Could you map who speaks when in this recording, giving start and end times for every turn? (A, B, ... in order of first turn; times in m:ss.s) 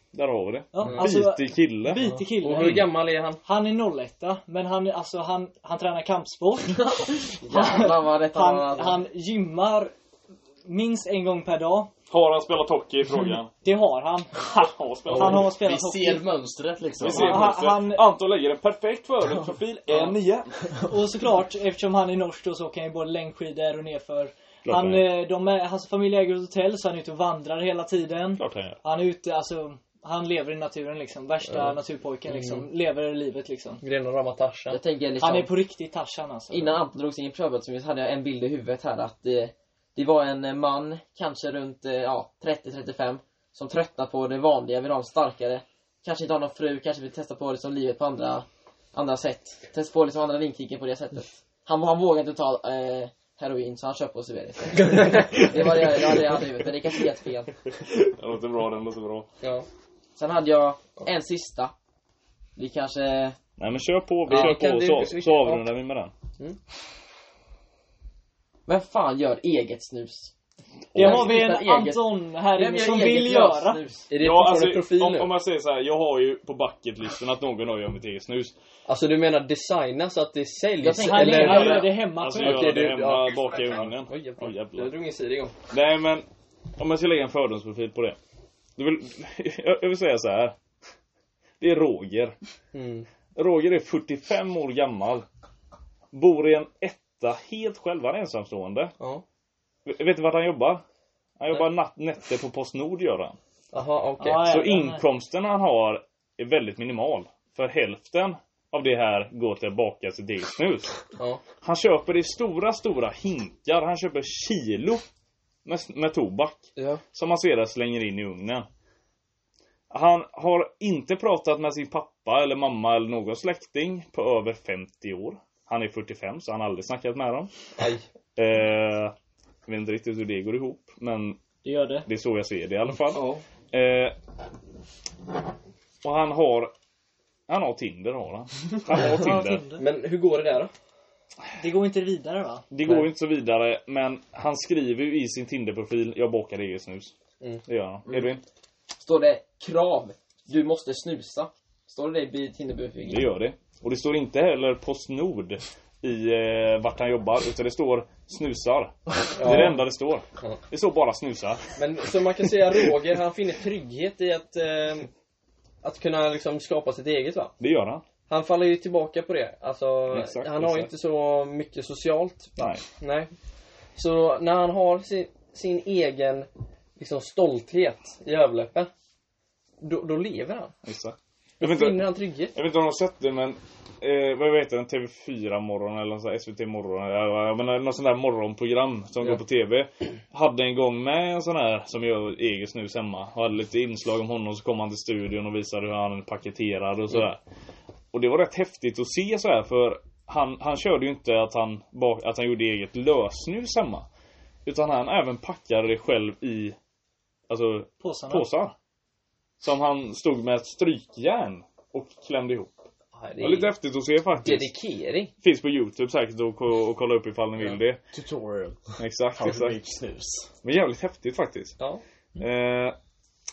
0:00.1-0:02.8 A
0:00.7-0:02.8 B
0:00.8-0:01.1 C
0:02.4-0:03.4 C
0:03.4-0:09.9 B
0:06.9-0:09.0 D
0:10.6-0:11.9 B
0:12.1-0:13.5 A
0:13.6-0:14.3 B
0:14.4-0:15.5 A
0:15.1-0:16.2 B
0:15.4-0:17.5 E
0:17.0-0:20.5 A
0:17.1-0:18.1 B
0:20.9-0:33.8 B
0:24.6-0:25.1 A
0:28.4-0:28.8 A
0:32.3-0:32.7 C
0:33.8-0:34.8 C
0:34.7-0:35.5 D
0:35.2-0:36.8 B
0:36.5-0:57.5 D
0:54.7-0:56.3 C
0:58.0-0:59.3 A
0:59.4-0:59.6 C
1:00.2-1:01.7 D
1:02.6-1:03.4 D
1:03.6-1:06.1 A
1:04.3-1:05.6 C
1:08.7-1:10.3 D
1:10.9-1:14.1 D
1:10.9-1:11.3 A
1:11.0-1:13.8 B
1:14.1-1:15.3 C
1:14.2-1:18.5 A
1:18.8-1:25.6 C
1:20.8-1:21.9 D
1:21.0-1:22.8 B
1:21.4-1:24.9 A
1:25.7-1:26.2 A
1:26.8-1:28.2 A
1:28.8-1:30.5 A
1:31.6-1:32.3 A
1:32.7-1:33.1 C
1:33.4-1:35.2 A
1:36.1-1:38.9 A
1:39.8-1:40.8 A
1:41.4-1:43.4 A
1:43.7-1:44.5 C
1:44.2-1:45.0 B
1:44.4-1:51.0 A
1:51.2-1:51.4 C
1:51.6-1:55.0 A
1:55.6-1:58.6 A
1:56.8-1:57.0 C
1:59.9-2:07.5 A
2:07.8-2:08.0 C
2:08.4-2:09.1 A
2:09.6-2:11.4 A
2:11.6-2:12.1 B
2:12.0-2:14.2 A
2:13.1-2:13.4 C
2:16.0-2:16.7 A
2:17.5-2:19.6 A
2:18.9-2:19.8 B
2:19.8-2:20.7 C
2:21.6-2:22.6 B
2:22.7-2:27.1 A
2:27.6-2:28.4 A
2:29.0-2:33.3 D
2:33.0-2:41.7 A
2:39.4-2:39.8 C
2:41.8-2:45.1 C
2:45.8-2:47.5 C
2:47.6-2:48.0 A
2:48.3-2:53.3 C
2:50.1-2:50.9 A
2:52.6-2:52.8 A
2:54.0-2:58.9 C
2:59.8-3:00.7 C
3:00.8-3:17.4 A
3:01.6-3:02.5 C
3:18.1-3:24.0 A
3:24.6-3:26.8 A
3:27.5-3:28.7 A
3:28.0-3:28.5 B
3:29.6-3:32.8 A
3:33.1-3:33.7 C
3:33.4-3:34.7 A
3:34.4-3:35.3 C
3:35.4-3:38.0 A
3:38.1-3:40.5 E
3:39.0-3:39.8 A
3:40.6-3:41.8 A
3:42.4-3:43.0 A